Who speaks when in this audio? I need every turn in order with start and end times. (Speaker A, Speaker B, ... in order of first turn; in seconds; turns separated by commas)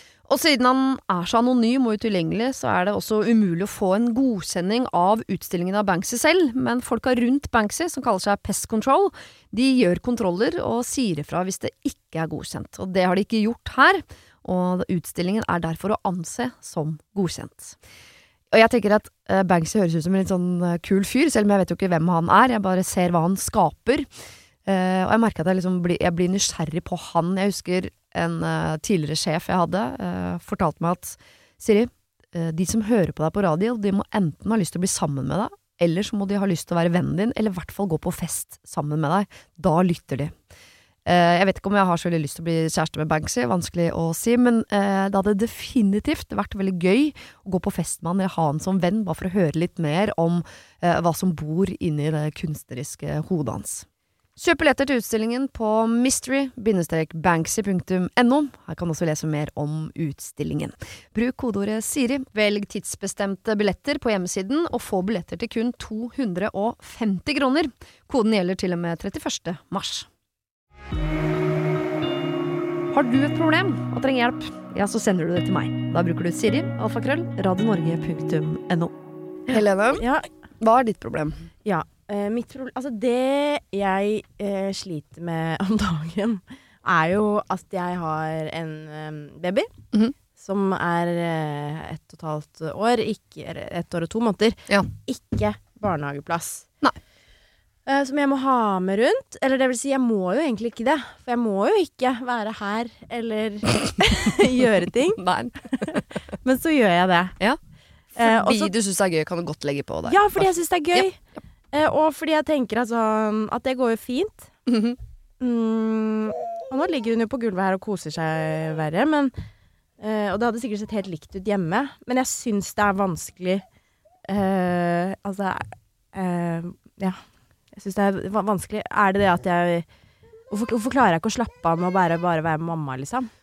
Speaker A: 0.3-17.8, Speaker A: 18.5-24.1, Speaker A: 24.6-40.3, Speaker A: 41.0-53.8, Speaker A: 54.4-70.1, Speaker A: 72.9-78.7, Speaker A: 79.5-80.0, Speaker B: 79.9-80.3, Speaker A: 80.6-81.5, Speaker B: 81.6-89.7, Speaker B: 90.3-96.6, Speaker B: 97.8-105.2, Speaker A: 105.2-105.5, Speaker B: 105.7-107.3, Speaker A: 108.2-111.0, Speaker B: 108.2-108.7, Speaker B: 110.0-111.2, Speaker B: 111.7-114.5, Speaker A: 114.7-115.0, Speaker B: 115.4-119.3, Speaker B: 120.0-123.6, Speaker B: 124.3-127.2, Speaker B: 127.7-129.8, Speaker B: 130.5-133.3